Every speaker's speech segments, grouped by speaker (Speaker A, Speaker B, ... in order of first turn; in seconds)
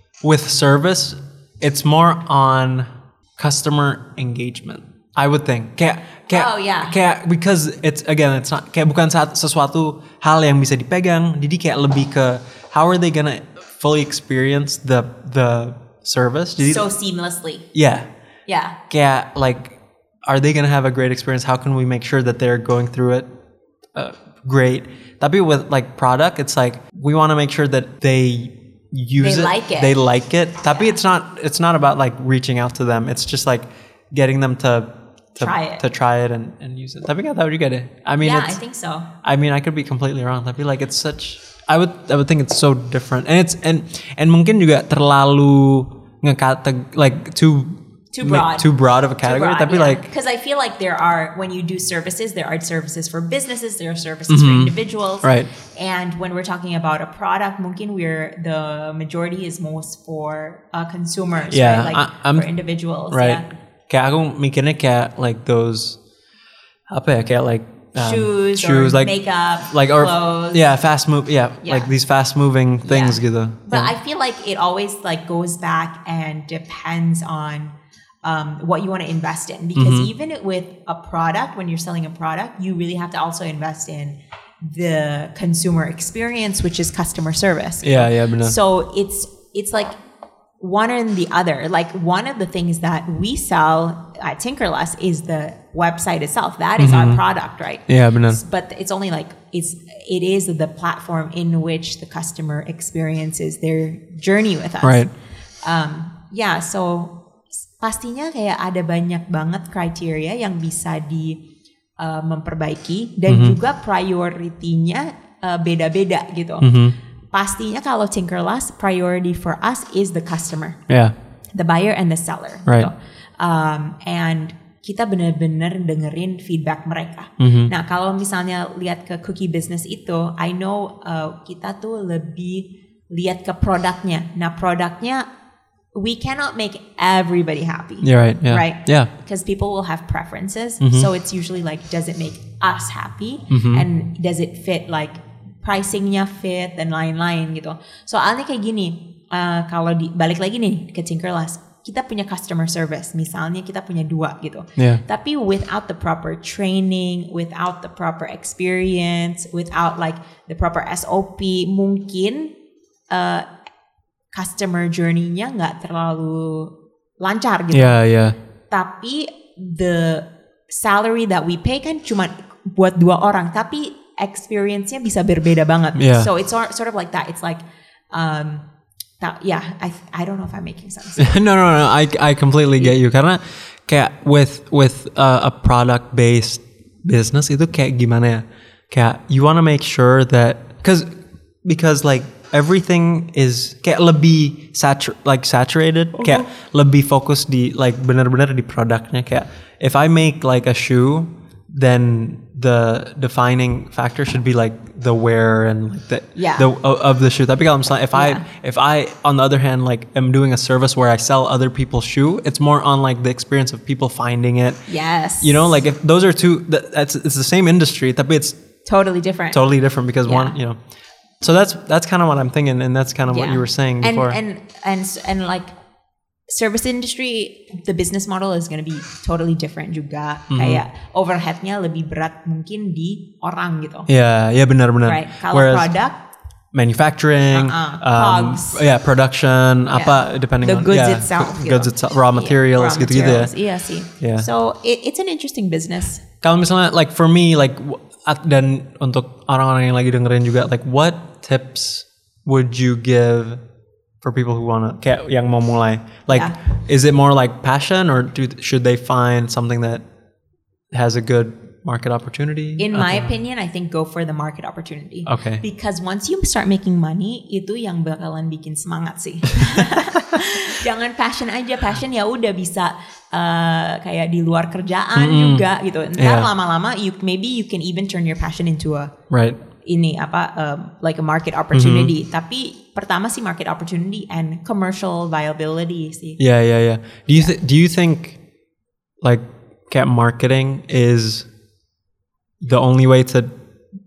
Speaker A: 0.2-16.9, 17.7-18.1, 18.9-19.8, 20.3-23.3, 23.9-38.6, 39.2-50.1, 54.3-55.5, 61.5-62.5, 63.1-66.0, 66.9-69.1, 69.7-73.9, 79.8-80.1, 87.8-88.6, 96.8-97.2, 97.9-98.4, 104.8-105.1, 113.3-113.6, 116.6-117.0, 120.9-121.1, 127.4-127.7, 138.0-139.1, 140.8-141.1, 143.5-143.9, 167.7-168.4, 176.0-176.3, 181.2-191.1, 191.6-214.8, 215.4-218.6, 219.5-220.8, 221.4-224.4, 230.5-230.8, 234.1-235.9, 236.7-243.5, 244.2-244.5, 246.4-253.6, 254.2-260.0, 260.9-263.3, 265.3-265.6, 275.2-275.7, 276.2-276.5, 279.3-279.6, 281.7-282.1, 286.4-288.4, 289.2-291.5, 292.6-293.5
Speaker B: 6.3-7.0, 16.6-17.7, 18.5-18.8, 29.2-30.0, 30.6-31.0, 35.4-35.8, 38.2-39.1, 48.1-48.7, 49.2-63.5, 68.0-70.7, 71.6-71.9, 72.8-90.0, 90.6-105.0, 105.6-107.2, 107.8-111.4, 112.0-116.7, 117.3-120.8, 121.6-135.3, 135.9-162.5, 163.1-163.5, 164.3-168.0, 168.7-178.7, 179.2-181.3, 196.2-196.4, 206.4-206.7, 208.1-208.4, 214.9-215.8, 218.9-219.6, 220.2-220.6, 223.3-225.8, 226.5-234.1, 235.1-236.2, 237.5-238.9, 239.9-246.2, 256.3-256.6, 262.8-279.1, 279.8-286.4